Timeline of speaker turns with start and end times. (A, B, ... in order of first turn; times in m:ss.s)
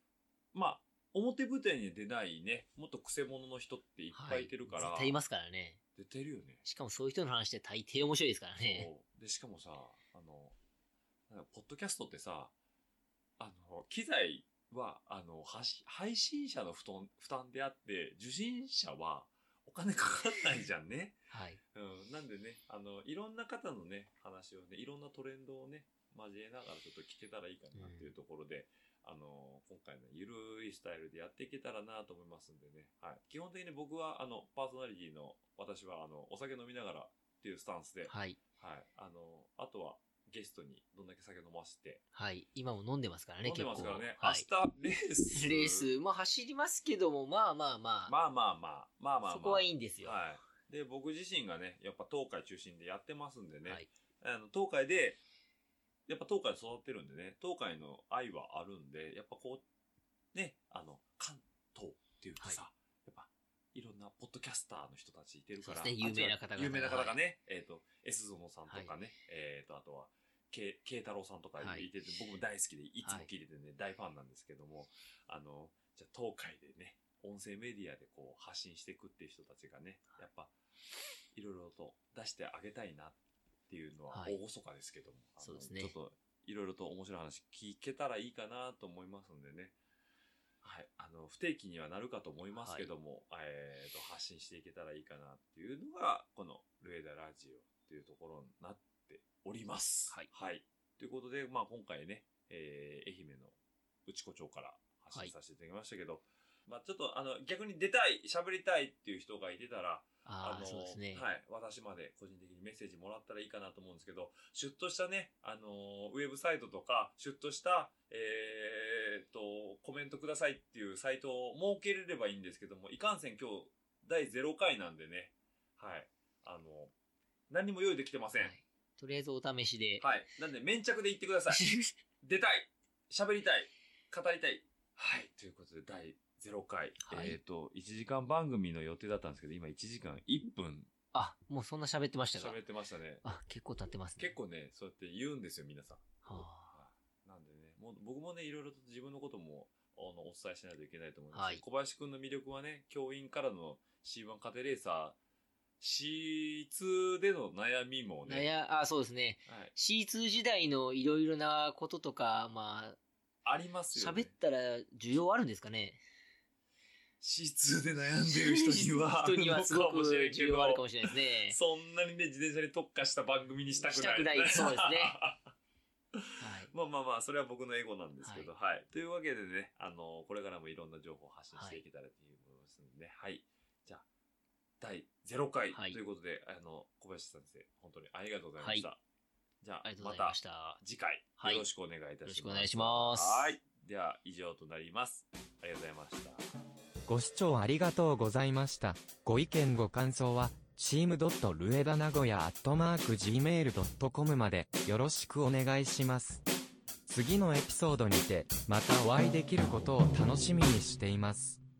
0:00.5-0:05.2 A
0:04.1-0:05.8 B
0:06.0-0:06.6 A
0:06.6-0:08.9 B
0:08.6-0:10.6 A
0:11.3-0:12.5 A
0:13.4-0:21.2 A
0:21.3-0:21.6 B
0:21.7-0:42.0 A
0:27.7-0:28.1 B
0:38.1-0:38.4 B
0:42.1-0:44.5 B
0:43.4-0:45.9 A
0:45.3-0:48.1 B
0:48.1-0:55.2 A
0:49.3-0:50.2 B
0:56.1-0:59.6 A
1:00.3-1:20.5 A
1:05.6-1:07.2 B
1:11.6-1:11.9 B
1:13.0-1:13.3 B
1:21.3-1:23.2 A
1:23.7-1:29.7 A
1:24.1-1:24.4 B
1:25.4-1:25.9 B
1:30.6-2:06.9 A
1:32.5-1:32.9 B
1:50.2-1:51.3 B
2:07.5-2:08.5 A
2:08.4-2:10.0 B
2:10.0-2:11.7 A
2:11.5-2:11.9 B
2:12.2-2:20.9 A
2:17.0-2:17.4 B
2:21.1-2:22.6 B
2:22.3-2:23.2 A
2:23.2-2:24.3 B
2:24.2-2:35.2 A
2:26.2-2:26.7 B
2:31.3-2:31.6 B
2:35.8-2:38.5 A
2:38.3-2:43.0 B
2:39.5-2:39.7 A
2:43.4-2:44.3 A
2:43.9-2:46.0 B
2:47.2-2:55.6 A
2:48.3-2:51.6 B
2:53.8-2:55.1 B
2:56.1-3:04.0 A
2:56.4-2:56.7 B
2:58.2-2:58.5 B
3:01.5-3:01.8 B
3:04.8-3:09.0 A
3:05.7-3:06.0 B
3:08.6-3:08.9 B
3:09.6-3:16.4 A
3:09.8-3:10.8 B
3:11.4-3:11.6 B
3:12.2-3:13.5 B
3:17.1-3:26.4 C
3:27.1-3:31.6 C